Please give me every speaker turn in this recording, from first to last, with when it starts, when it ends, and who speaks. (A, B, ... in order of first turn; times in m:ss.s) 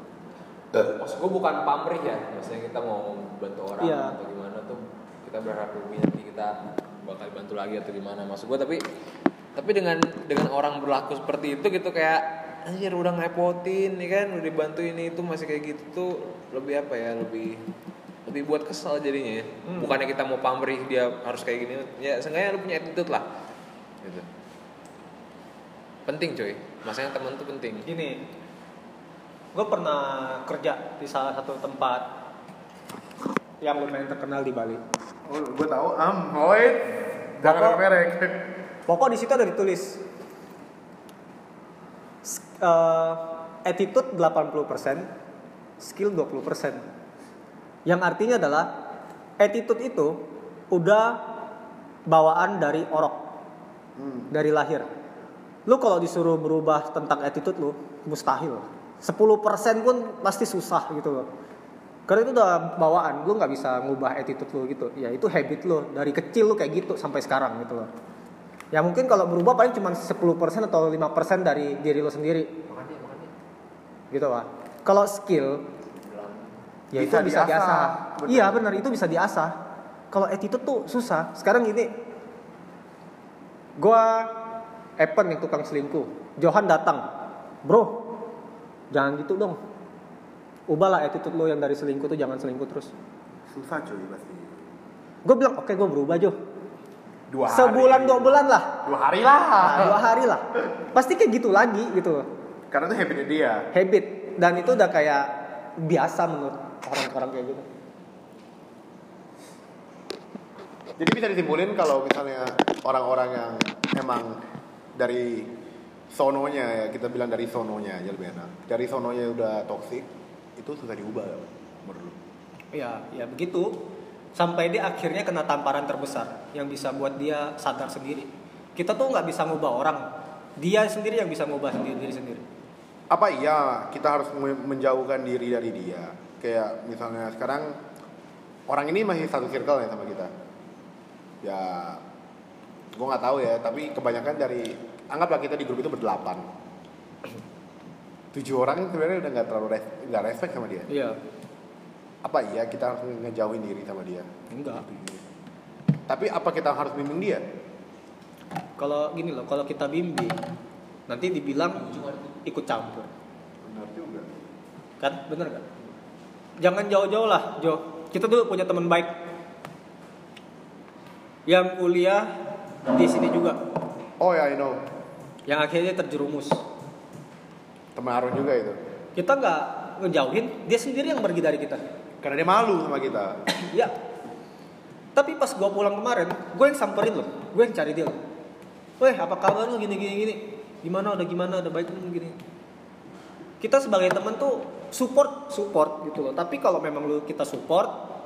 0:00.7-0:08.8 A
0:03.8-0:04.1 B
0:09.6-0:17.6 A
0:18.2-0:23.3 A
0:26.0-0:27.8 A
0:27.8-0:28.2 B
0:29.5-0:32.0 B
0:33.6-0:34.8 B
0:35.2-0:38.5 C
0:37.4-0:37.8 B
0:38.9-0:40.0 B
0:42.2-0:45.1 B
0:45.8-0:46.8 B
0:47.8-0:48.7 B
0:49.4-0:50.2 B
0:50.7-0:51.2 B
0:52.1-0:53.2 B
0:54.0-0:54.3 C
0:54.3-0:54.9 B
0:55.6-1:01.3 B
1:02.1-1:07.9 B
1:08.7-1:12.5 B
1:12.7-1:13.3 A
1:14.1-1:15.6 B
1:16.1-1:16.4 A
1:16.9-1:19.5 B
1:16.9-1:18.8 C
1:20.1-1:21.9 B
1:23.8-1:24.3 B
1:25.0-1:27.0 B
1:27.6-1:28.0 B
1:28.9-1:29.6 B
1:30.7-1:32.9 B
1:33.5-1:34.6 C
1:35.2-1:36.3 B
1:37.3-1:40.0 C
1:37.5-1:38.7 B
1:39.6-1:42.2 B
1:42.7-1:43.7 C
1:43.7-1:47.6 B
1:51.0-1:54.4 C
1:54.9-1:55.5 C
1:56.1-2:02.2 C
2:02.7-2:03.8 B
2:04.4-2:10.0 B
2:10.6-2:12.4 B
2:13.1-2:17.8 C
2:18.7-2:20.3 C
2:21.4-2:22.0 C
2:22.9-2:26.4 C
2:28.3-2:30.9 C
2:30.9-2:31.2 B
2:32.2-2:35.2 C
2:34.5-2:34.8 B
2:36.1-2:37.4 C
2:38.8-2:40.4 B
2:41.1-2:43.1 B
2:41.8-2:42.3 A
2:43.6-2:44.4 C
2:45.0-2:45.7 B
2:46.6-2:49.1 B
2:51.5-2:52.3 B
2:52.9-2:53.6 B
2:54.2-2:54.8 C
2:55.5-2:56.6 B
2:57.9-2:58.8 C
2:59.1-3:01.8 B
3:02.2-3:03.4 C
3:03.5-3:03.9 B
3:05.2-3:08.2 B
3:09.0-3:12.4 B
3:13.6-3:17.9 B